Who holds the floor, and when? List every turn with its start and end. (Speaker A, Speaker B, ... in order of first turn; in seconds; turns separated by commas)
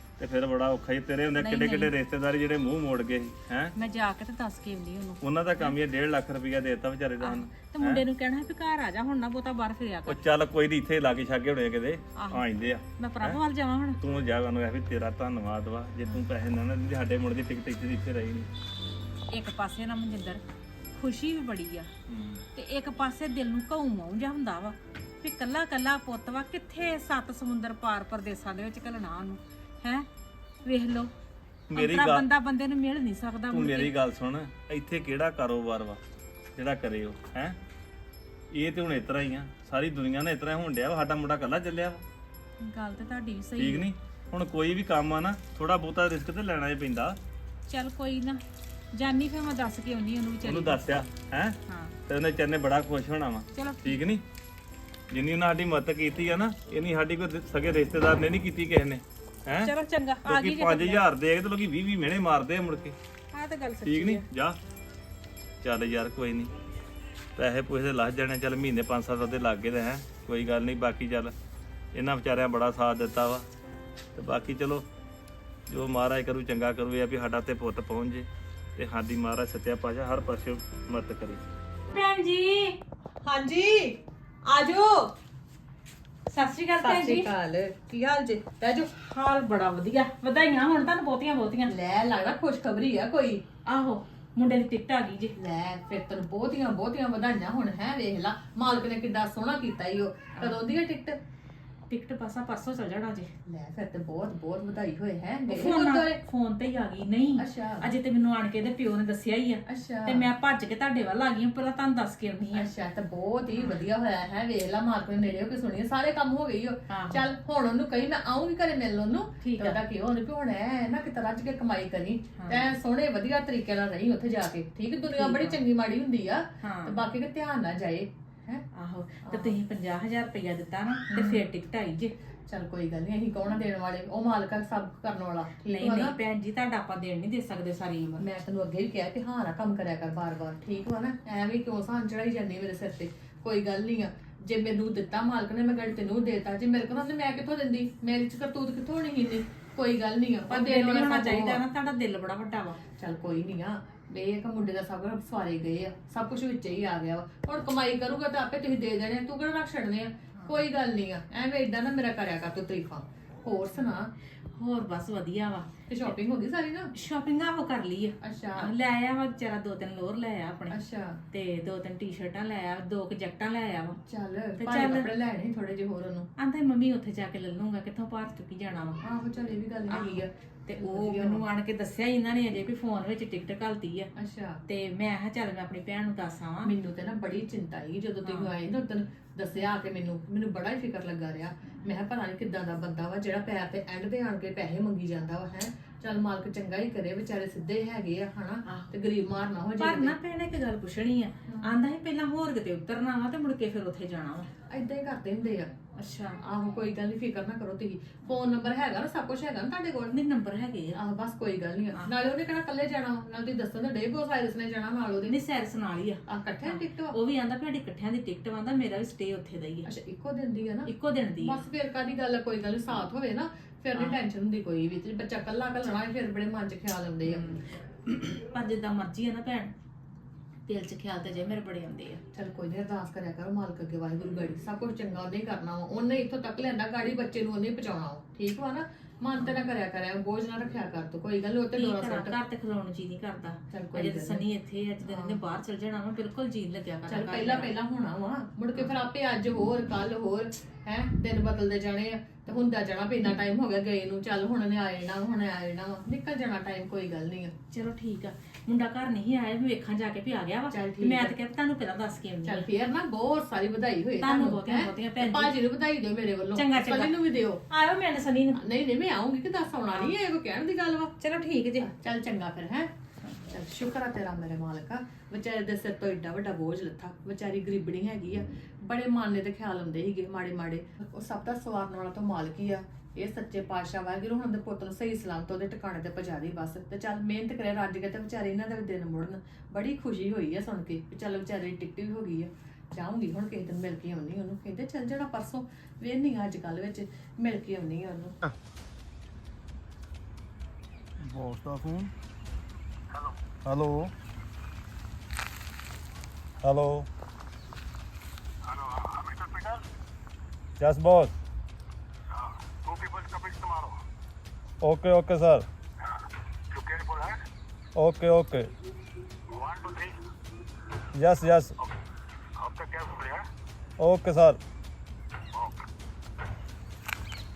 Speaker A: 0.2-3.7, Speaker B: 1.3-1.9, Speaker B: 3.7-5.8, Speaker A: 5.2-8.0, Speaker B: 7.2-10.2, Speaker A: 10.1-13.4, Speaker B: 12.2-14.0, Speaker A: 14.0-18.5, Speaker B: 19.3-20.4, Speaker B: 20.9-21.9, Speaker A: 22.1-22.4, Speaker B: 22.5-30.1, Speaker B: 30.6-31.1, Speaker A: 31.7-32.2, Speaker B: 31.7-34.0, Speaker A: 33.5-36.0, Speaker A: 36.5-37.6, Speaker A: 38.5-42.0, Speaker B: 42.6-43.9, Speaker A: 43.5-47.2, Speaker B: 47.7-48.4, Speaker B: 48.9-51.0, Speaker A: 50.4-51.5, Speaker B: 51.7-52.0, Speaker A: 52.1-54.2, Speaker B: 53.5-54.0, Speaker A: 55.1-59.7, Speaker B: 59.6-61.0, Speaker A: 60.2-63.0, Speaker B: 63.3-64.3, Speaker A: 63.8-64.6, Speaker A: 65.6-66.5, Speaker A: 67.3-71.3, Speaker A: 71.9-73.5, Speaker A: 74.2-74.8, Speaker A: 75.7-81.4, Speaker B: 81.9-82.8, Speaker C: 83.2-85.1, Speaker B: 86.3-87.3, Speaker C: 86.8-88.9, Speaker B: 88.9-91.7, Speaker C: 91.7-93.4, Speaker B: 93.7-95.4, Speaker C: 95.3-101.2, Speaker B: 101.9-103.3, Speaker C: 103.5-106.2, Speaker B: 105.5-112.7, Speaker C: 107.4-107.8, Speaker C: 109.7-110.3, Speaker C: 112.5-128.6, Speaker B: 113.5-113.9, Speaker B: 116.9-117.2, Speaker B: 119.4-119.8, Speaker B: 122.4-122.7, Speaker B: 125.0-125.6, Speaker B: 126.6-127.0, Speaker B: 128.7-132.1, Speaker C: 129.2-129.5, Speaker C: 131.1-131.4, Speaker C: 132.5-136.2, Speaker B: 135.7-138.2, Speaker C: 138.2-151.6, Speaker B: 150.5-152.8, Speaker C: 153.0-164.1, Speaker B: 160.4-160.7, Speaker B: 164.5-166.1, Speaker C: 165.9-166.9, Speaker B: 166.9-170.8, Speaker C: 168.2-168.7, Speaker C: 170.7-171.2, Speaker B: 171.3-174.0, Speaker C: 174.1-176.3, Speaker B: 174.6-175.1, Speaker B: 176.4-179.0, Speaker C: 179.0-181.4, Speaker B: 179.9-184.1, Speaker C: 184.2-184.6, Speaker B: 184.6-186.7, Speaker C: 186.6-200.1, Speaker B: 188.2-188.5, Speaker B: 198.6-198.9, Speaker B: 199.8-204.5, Speaker C: 201.5-201.7, Speaker C: 204.7-205.7, Speaker B: 206.0-206.4, Speaker C: 206.4-210.1, Speaker B: 210.0-211.0, Speaker C: 210.9-215.3, Speaker B: 215.2-219.9, Speaker C: 216.3-217.1, Speaker C: 219.8-227.4, Speaker B: 220.8-221.6, Speaker B: 227.2-229.7, Speaker B: 230.7-232.2, Speaker C: 232.3-242.4, Speaker B: 241.7-247.7, Speaker C: 243.7-244.4, Speaker C: 245.0-245.4, Speaker C: 247.1-257.5, Speaker B: 257.7-262.7, Speaker C: 260.7-261.3, Speaker C: 262.4-267.6, Speaker B: 264.2-265.6, Speaker B: 266.5-267.1, Speaker B: 267.7-268.6, Speaker C: 268.5-271.1, Speaker B: 271.2-271.9, Speaker C: 271.8-272.9, Speaker B: 273.2-273.5, Speaker C: 273.5-298.4, Speaker D: 301.2-302.1, Speaker D: 303.6-304.1, Speaker D: 306.6-307.1, Speaker E: 308.6-309.8, Speaker D: 310.8-311.3, Speaker E: 312.4-314.0, Speaker D: 314.8-315.6, Speaker E: 316.7-317.4, Speaker D: 317.9-318.7, Speaker E: 319.5-320.2, Speaker D: 321.2-321.7, Speaker E: 322.6-323.5, Speaker D: 324.0-324.6